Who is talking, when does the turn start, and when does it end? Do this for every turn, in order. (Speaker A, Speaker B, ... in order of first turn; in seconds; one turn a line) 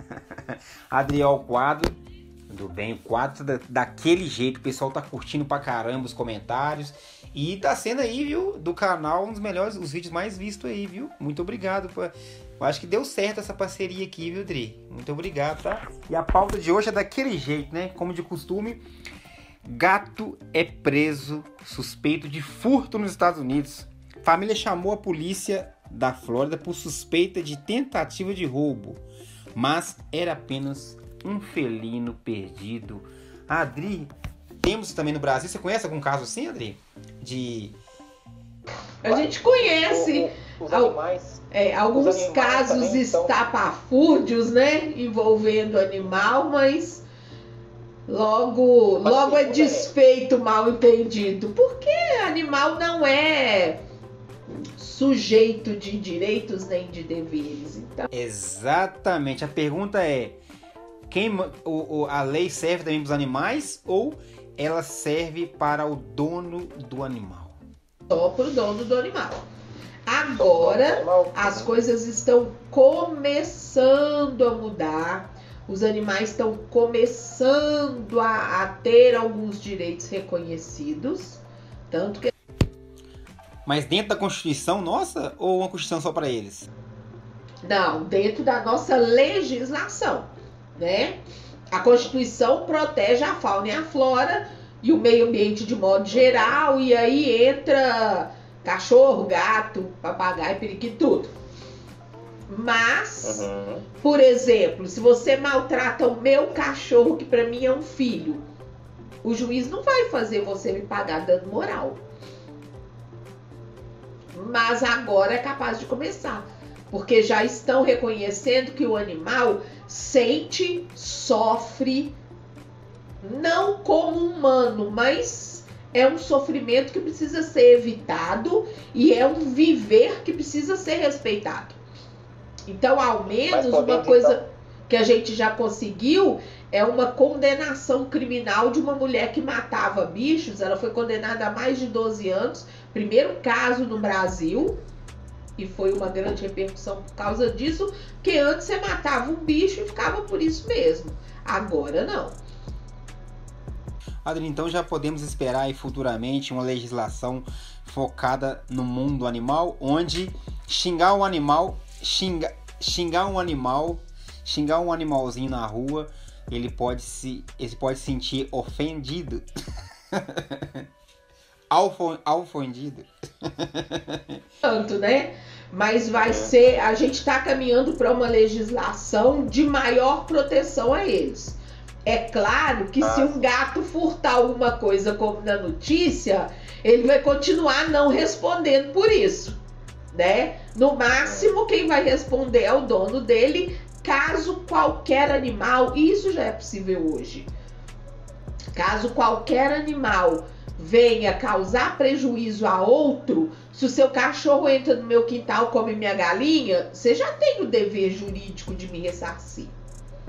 Speaker A: 0.5-1.9
Speaker A: 2.5-18.8
Speaker A: 19.7-29.0
Speaker A: 29.6-37.8
Speaker B: 39.0-41.0
Speaker C: 39.0-41.4
Speaker B: 41.5-47.0
Speaker C: 41.9-43.4
Speaker B: 48.1-53.8
Speaker C: 49.0-49.9
Speaker B: 54.8-58.1
Speaker A: 58.1-60.4
Speaker A: 61.1-67.6
Speaker B: 68.1-69.4
Speaker B: 70.1-82.3
Speaker C: 70.2-71.8
Speaker A: 83.7-86.7
Speaker B: 87.6-91.2
Speaker B: 91.7-101.3
Speaker C: 96.1-96.6
Speaker B: 102.5-108.5
Speaker C: 103.2-103.8
Speaker B: 109.2-112.0
Speaker B: 114.3-122.2
Speaker B: 123.2-131.8
Speaker B: 132.7-144.8
Speaker C: 133.5-134.4
Speaker B: 145.6-152.4
Speaker A: 154.2-169.4
Speaker A: 170.2-170.8
Speaker A: 171.7-174.4
Speaker B: 174.6-189.6
Speaker C: 176.2-176.6
Speaker C: 183.0-183.4
Speaker B: 190.1-197.5
Speaker C: 191.1-191.5
Speaker B: 198.7-209.7